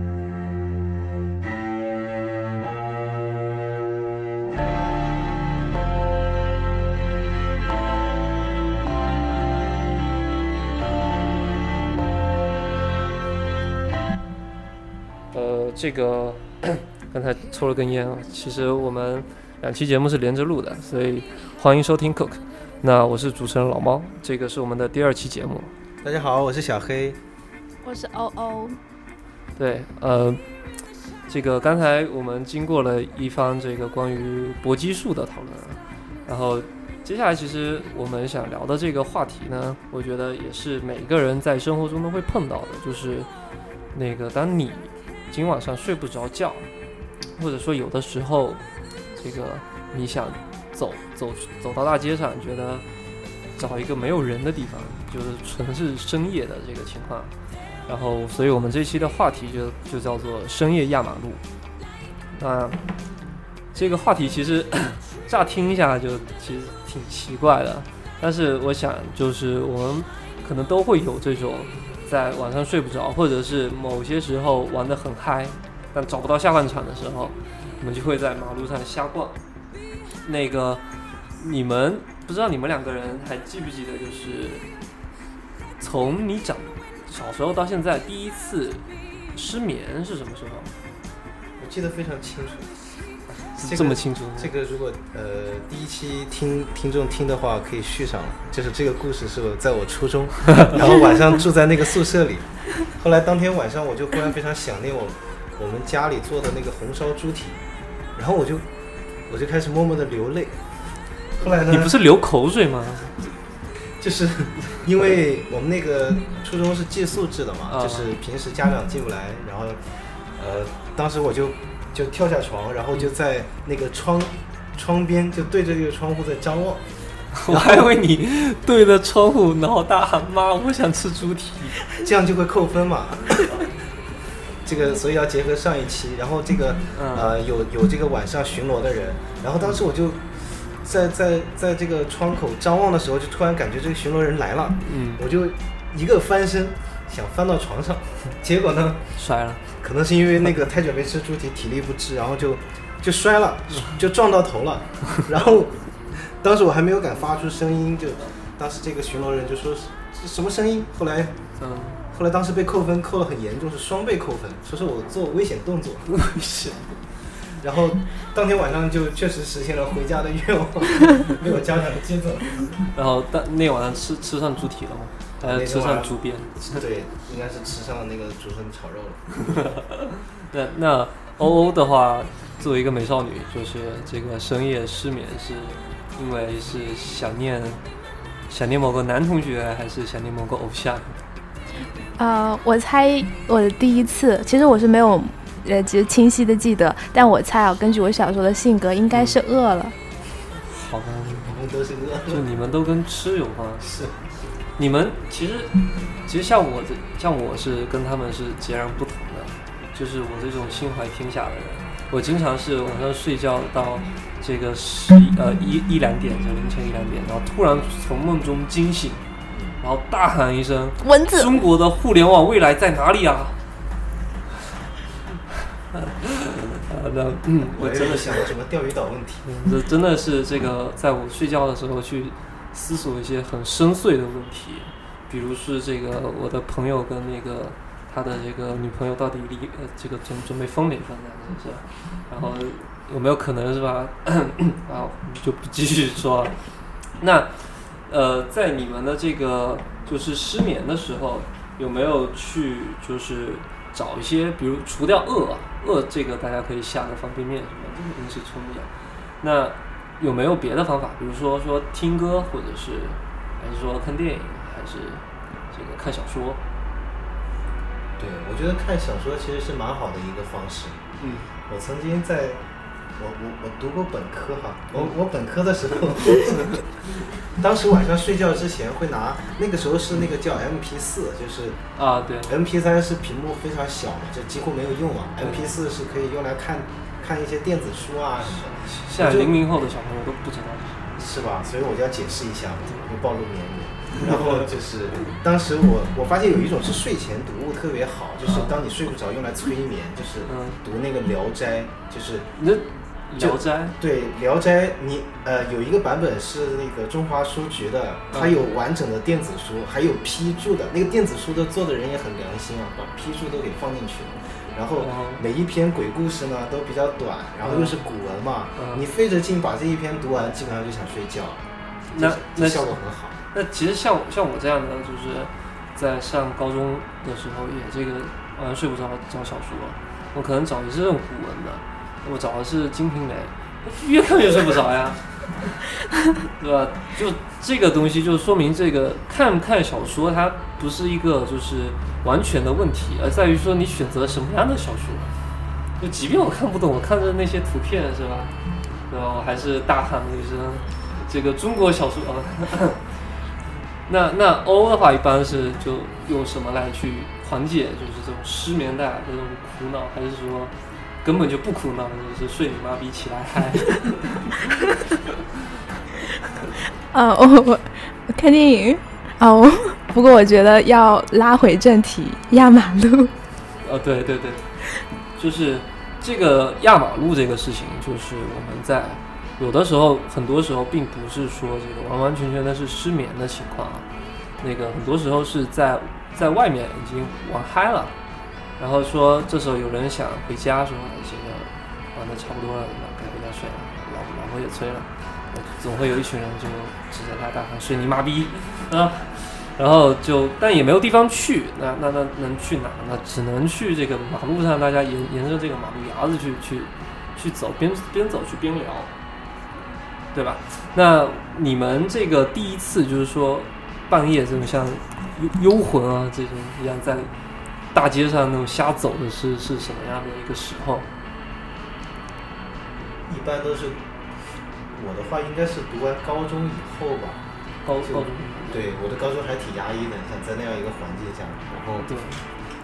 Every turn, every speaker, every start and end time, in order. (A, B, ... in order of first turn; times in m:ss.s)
0:15.3-0:25.7 A
0:26.0-0:27.2 B
0:27.8-0:28.8 C
0:29.6-0:30.4 A
0:31.3-0:43.3 A
0:43.9-0:46.7 A
0:47.4-0:48.6 A
0:49.2-0:52.8 A
0:53.6-0:57.3 A
0:57.9-1:01.4 A
1:02.3-1:02.9 A
1:03.7-1:19.4 A
1:20.2-1:24.6 A
1:25.8-1:30.7 A
1:31.6-1:32.9 B
1:33.5-1:34.5 A
1:33.6-1:47.6 B
1:48.2-1:48.7 B
1:49.3-1:50.8 B
1:51.4-1:51.9 B
1:51.6-1:53.2 A
1:53.9-2:07.9 B
1:57.7-1:58.1 A
2:07.4-2:11.8 A
2:12.0-2:13.5 B
2:14.6-2:29.1 B
2:16.9-2:17.3 A
2:24.8-2:25.2 A
2:29.2-2:29.6 A
2:29.8-2:41.4 B
2:41.6-2:42.0 A
2:42.1-2:46.3 B
2:46.2-2:46.8 A
2:47.4-2:52.8 B
2:52.9-2:56.8 A
2:55.4-2:56.2 B
2:56.7-2:59.4 B
2:59.6-3:07.8 A
3:08.5-3:11.2 A
3:12.2-3:20.0 C
3:19.1-3:19.4 A
3:20.6-3:21.6 A
3:21.3-3:22.4 B
3:22.3-3:23.9 A
3:23.8-3:24.2 B
3:24.8-3:39.2 A
3:39.5-3:39.8 B
3:39.8-3:43.6 A
3:41.0-3:41.6 C
3:45.9-3:48.5 A
3:47.7-3:49.5 B
3:49.4-4:06.6 A
4:07.2-4:26.6 A
4:28.2-4:31.0 B
4:31.2-4:31.5 A
4:31.7-4:32.6 B
4:33.2-4:41.8 B
4:42.0-4:42.6 A
4:42.5-4:49.6 B
4:45.4-4:45.7 A
4:48.4-4:51.1 A
4:51.2-5:02.5 B
4:54.2-4:54.7 A
4:58.5-4:58.7 A
5:00.5-5:00.8 A
5:02.6-5:04.0 A
5:03.4-5:23.4 B
5:08.3-5:08.6 A
5:15.0-5:15.4 A
5:17.6-5:18.0 A
5:18.8-5:19.0 A
5:22.1-5:22.9 A
5:23.5-5:35.9 A
5:36.6-5:45.3 A
5:46.0-5:48.6 A
5:49.1-5:53.4 A
5:54.1-6:04.7 A
6:07.1-6:13.3 C
6:13.8-6:14.6 A
6:15.4-6:24.1 A
6:24.6-6:28.2 A
6:28.8-6:49.1 A
6:50.3-6:57.3 A
6:57.9-7:01.1 A
7:03.3-7:04.0 B
7:04.9-7:07.4 B
7:07.8-7:08.9 A
7:08.0-7:12.1 B
7:12.0-7:12.4 A